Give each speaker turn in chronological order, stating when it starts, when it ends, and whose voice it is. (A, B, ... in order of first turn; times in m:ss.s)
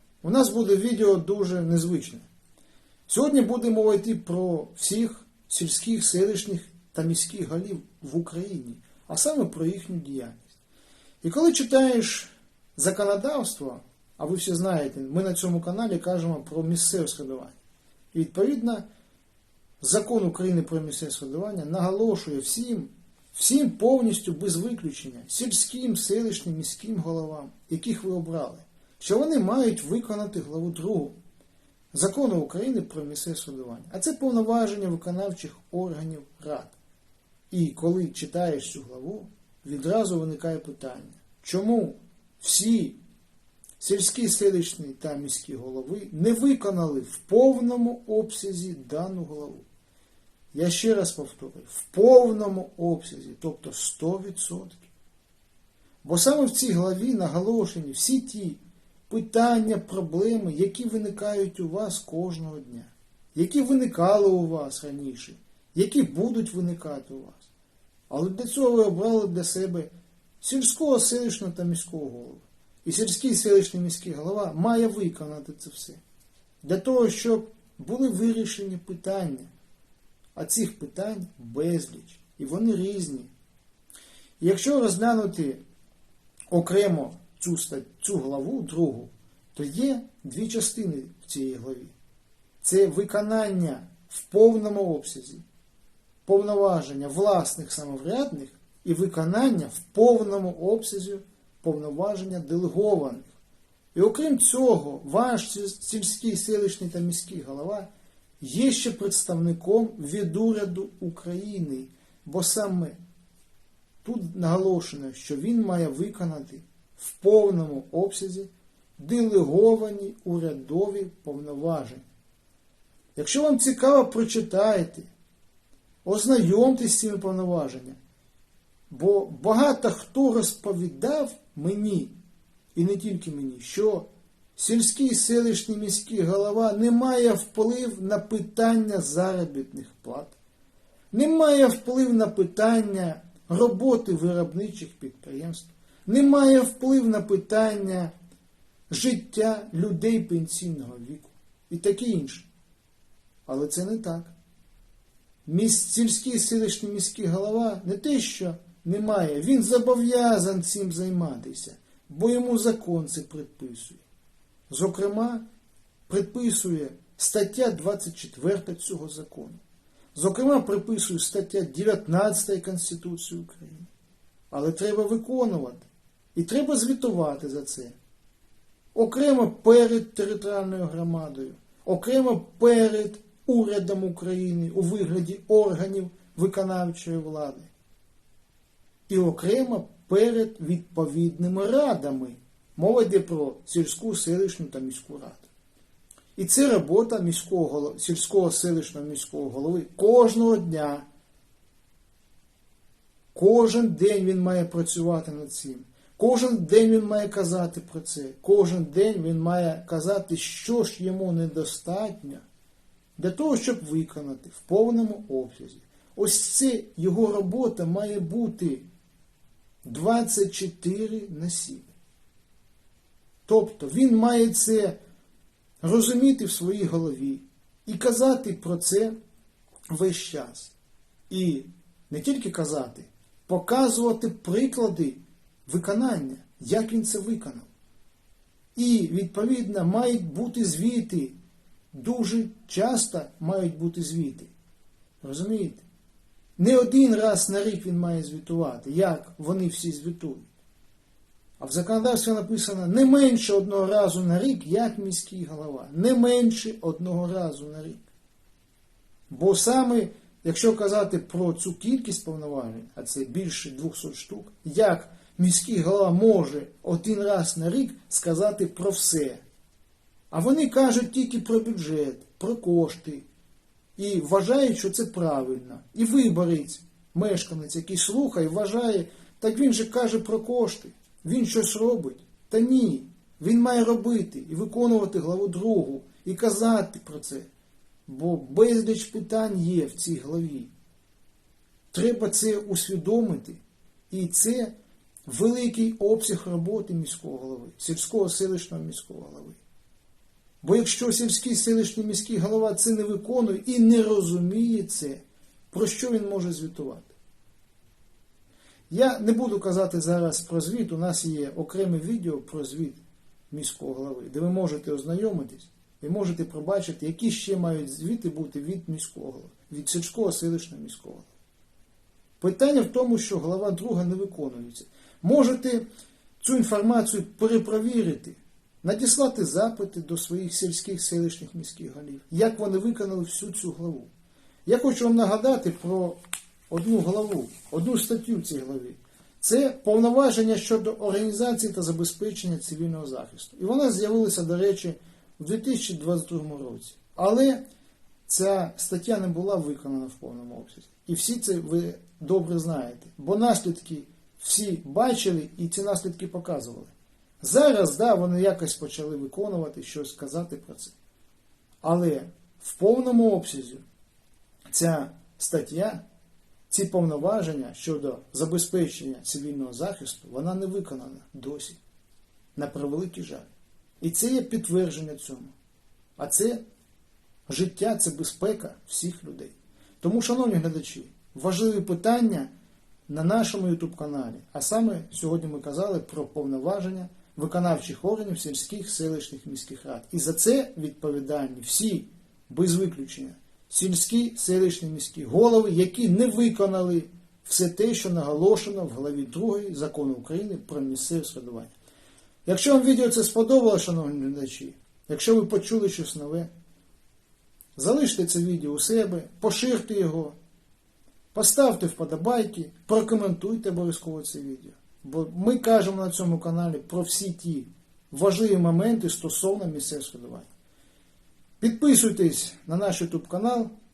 0:00.2-0:02.2 A
0:03.1-0:10.5 A
0:11.2-0:17.6 A
0:18.1-0:18.8 A
0:19.8-0:31.2 A
0:31.9-0:36.8 A
0:37.5-0:43.0 A
0:43.8-0:49.7 A
0:50.5-0:54.9 A
0:56.0-1:07.5 A
1:08.1-1:09.9 A
1:10.4-1:16.0 A
1:16.6-1:19.5 A
1:20.4-1:23.3 A
1:24.4-1:25.6 A
1:26.5-1:31.9 A
1:32.6-1:35.4 A
1:36.3-1:43.3 A
1:43.9-1:47.9 A
1:48.4-1:53.0 A
1:54.0-2:02.0 A
2:03.2-2:05.1 A
2:06.0-2:08.0 A
2:08.9-2:12.2 A
2:12.8-2:20.4 A
2:21.1-2:28.1 A
2:28.9-2:32.5 A
2:33.5-2:34.3 A
2:35.5-2:44.0 A
2:44.7-2:45.4 A
2:46.1-2:49.6 A
2:50.1-2:53.9 A
2:54.5-2:58.0 A
2:59.0-3:07.7 A
3:09.1-3:15.5 A
3:16.4-3:21.0 A
3:23.3-3:32.4 A
3:33.2-3:38.9 A
3:39.8-3:41.9 A
3:43.5-3:45.0 A
3:45.8-3:49.2 A
3:49.9-3:50.7 A
3:51.3-3:57.7 A
3:58.8-4:01.4 A
4:01.9-4:04.5 A
4:05.2-4:05.8 A
4:06.6-4:10.5 A
4:11.6-4:18.0 A
4:19.3-4:29.4 A
4:30.3-4:33.3 A
4:34.0-4:47.5 A
4:48.1-4:50.7 A
4:51.9-4:54.7 A
4:55.3-4:59.6 A
5:00.6-5:07.1 A
5:08.9-5:21.3 A
5:22.4-5:25.9 A
5:26.4-5:34.1 A
5:34.7-5:36.2 A
5:36.7-5:47.6 A
5:48.3-6:01.0 A
6:01.8-6:03.8 A
6:04.7-6:06.0 A
6:06.7-6:11.8 A
6:12.6-6:13.5 A
6:14.0-6:15.5 A
6:16.2-6:16.6 A
6:17.5-6:22.5 A
6:23.1-6:41.8 A
6:42.5-6:46.5 A
6:47.8-6:50.4 A
6:51.3-7:00.5 A
7:01.6-7:03.7 A